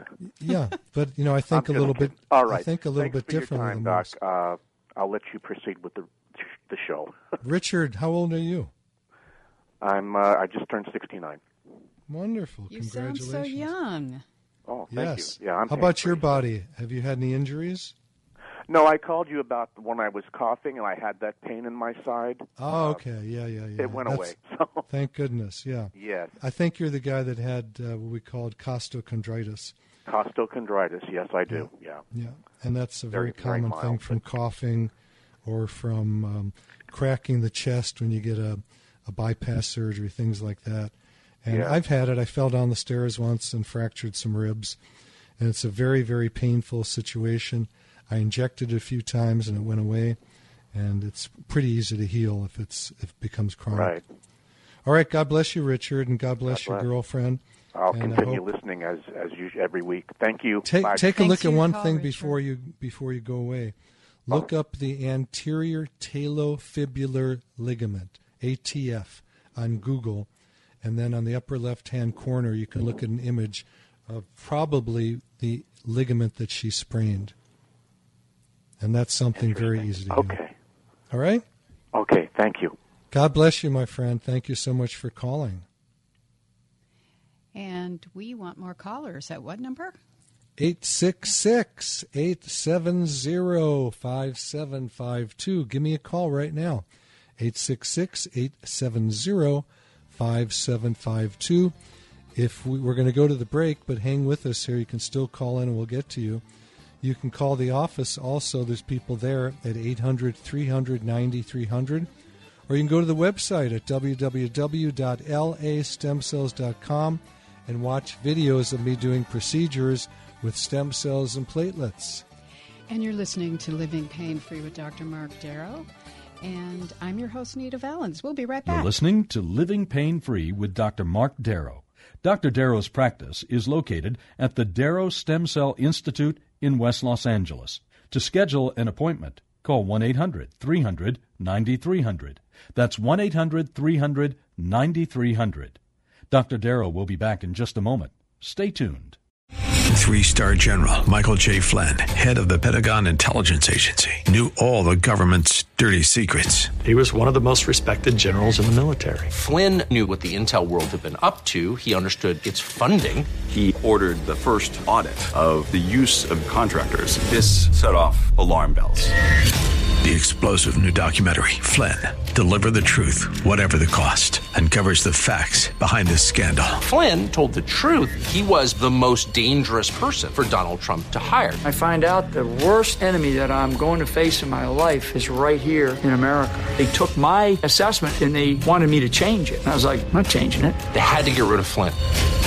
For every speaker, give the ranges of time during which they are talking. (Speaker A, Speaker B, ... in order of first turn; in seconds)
Speaker A: 0.2-4.1, 7.4-8.7, 12.1-13.7, 14.9-17.9, 22.6-24.3, 24.9-29.7, 31.5-34.9, 35.4-44.8, 45.4-50.2, 50.7-54.0, 54.8-58.4, 60.6-63.7, 64.3-70.3, 70.8-77.3, 78.8-80.4, 81.1-81.4, 83.1-85.6, 90.6-96.8, 97.4-101.7, 102.3-106.4, 107.0-112.1, 112.7-122.2
Speaker B: 1.5-7.2, 9.8-11.4, 14.7-16.4, 18.7-23.0, 23.8-24.8, 25.9-26.3, 30.1-32.0, 33.1-34.2, 41.5-41.8, 53.7-54.0, 56.5-56.9, 57.7-61.1, 79.4-80.5, 81.9-82.8
Speaker C: 12.7-14.2, 60.9-62.4, 87.5-90.0, 122.9-125.9, 126.4-129.0
Speaker D: 128.6-145.8, 146.3-149.2
Speaker E: 149.9-156.8, 170.0-176.8
Speaker F: 156.8-159.3
Speaker G: 159.3-163.3, 176.8-181.6, 190.9-192.0
Speaker H: 163.5-169.1
Speaker I: 181.6-190.8